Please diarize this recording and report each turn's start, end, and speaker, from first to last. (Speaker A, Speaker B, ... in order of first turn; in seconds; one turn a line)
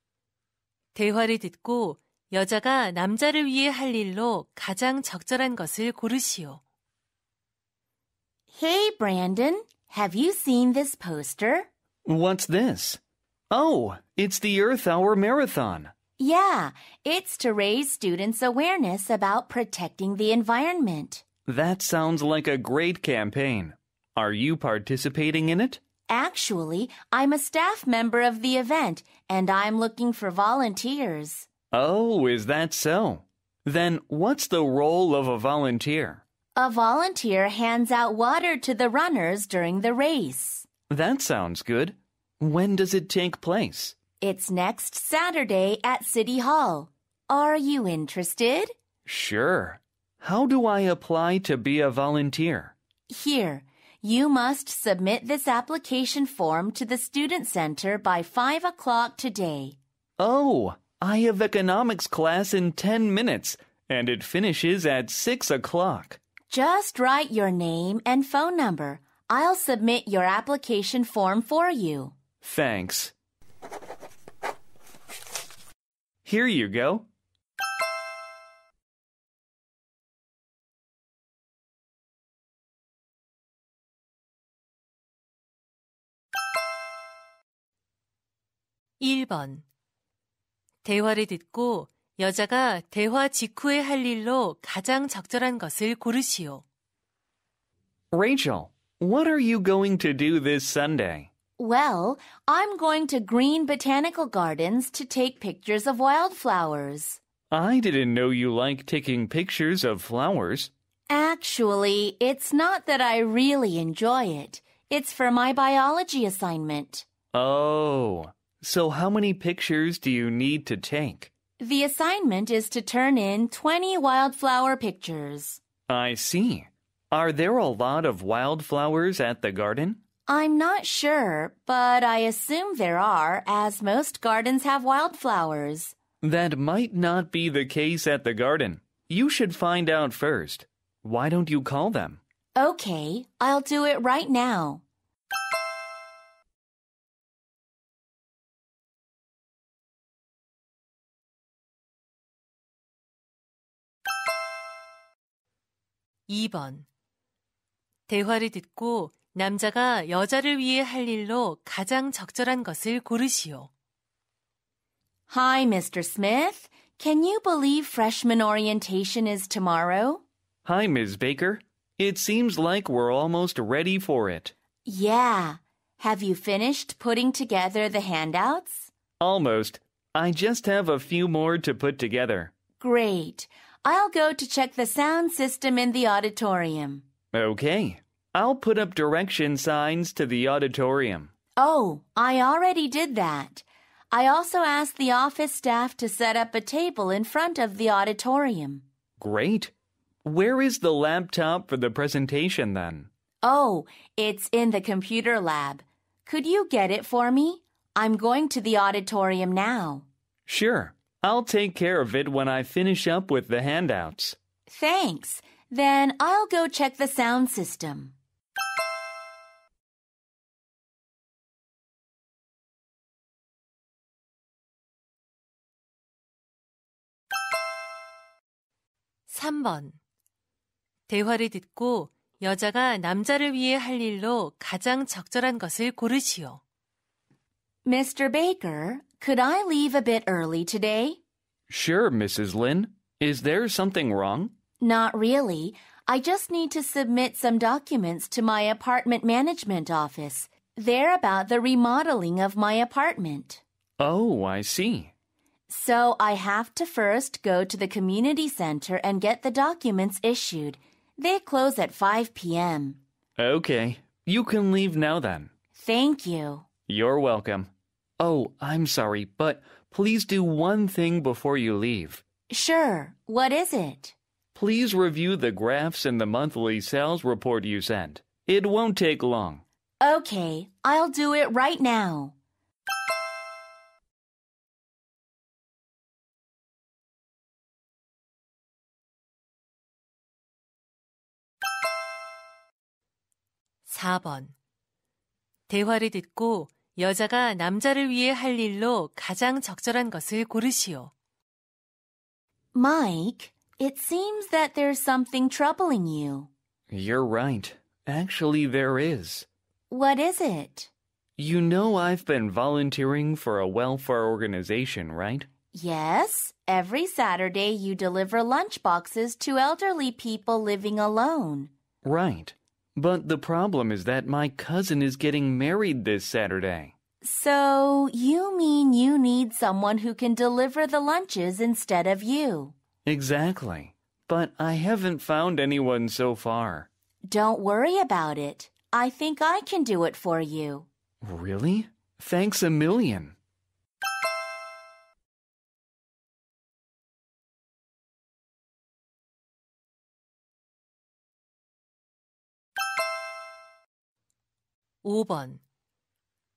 Speaker A: 0.9-6.6
Speaker B: 8.5-11.7
Speaker C: 12.1-15.9
Speaker B: 16.2-21.2
Speaker C: 21.5-25.8
Speaker B: 26.1-31.5
Speaker C: 31.7-36.2
Speaker B: 36.5-40.7
Speaker C: 40.9-44.0
Speaker B: 44.2-48.7
Speaker C: 49.0-52.7
Speaker B: 53.1-59.8
Speaker C: 60.2-66.2
Speaker B: 66.5-72.1
Speaker C: 72.4-73.1
Speaker C: 76.2-77.0
Speaker A: 89.0-89.6
Speaker A: 90.8-96.6
Speaker C: 98.1-101.3
Speaker B: 101.6-107.2
Speaker C: 107.5-110.7
Speaker B: 111.1-117.0
Speaker C: 117.3-121.3
Speaker B: 121.6-125.6
Speaker C: 125.9-130.0
Speaker B: 130.3-135.9
Speaker C: 136.2-142.2
Speaker B: 142.6-144.8
Speaker A: 156.3-156.8
Speaker A: 158.1-163.7
Speaker B: 165.3-170.2
Speaker C: 170.6-174.5
Speaker B: 174.8-178.9
Speaker C: 179.2-182.5
Speaker B: 182.8-187.0
Speaker C: 187.3-191.3
Speaker B: 191.6-198.8
Speaker C: 199.2-199.7
Speaker C: 200.2-203.1
Speaker B: 203.4-210.1
Speaker C: 210.5-214.4
Speaker B: 214.7-218.1
Speaker A: 229.3-230.0
Speaker A: 231.1-236.6
Speaker B: 237.8-241.2
Speaker C: 241.7-244.5
Speaker B: 244.8-253.6
Speaker C: 254.0-255.1
Speaker B: 255.7-263.0
Speaker C: 263.4-265.5
Speaker B: 265.7-266.6
Speaker C: 266.9-272.2
Speaker B: 272.5-274.1
Speaker C: 274.5-279.6
Speaker B: 280.0-282.3
Speaker A: 293.9-294.5
Speaker A: 295.7-301.1
Speaker B: 302.7-306.5
Speaker C: 306.9-309.5
Speaker B: 309.9-310.9
Speaker C: 311.4-315.5
Speaker B: 315.7-321.7
Speaker C: 322.0-326.9
Speaker B: 327.2-332.7
Speaker C: 333.1-336.9
Speaker B: 337.2-340.9
Speaker C: 341.2-343.3
Speaker A: 355.0-355.6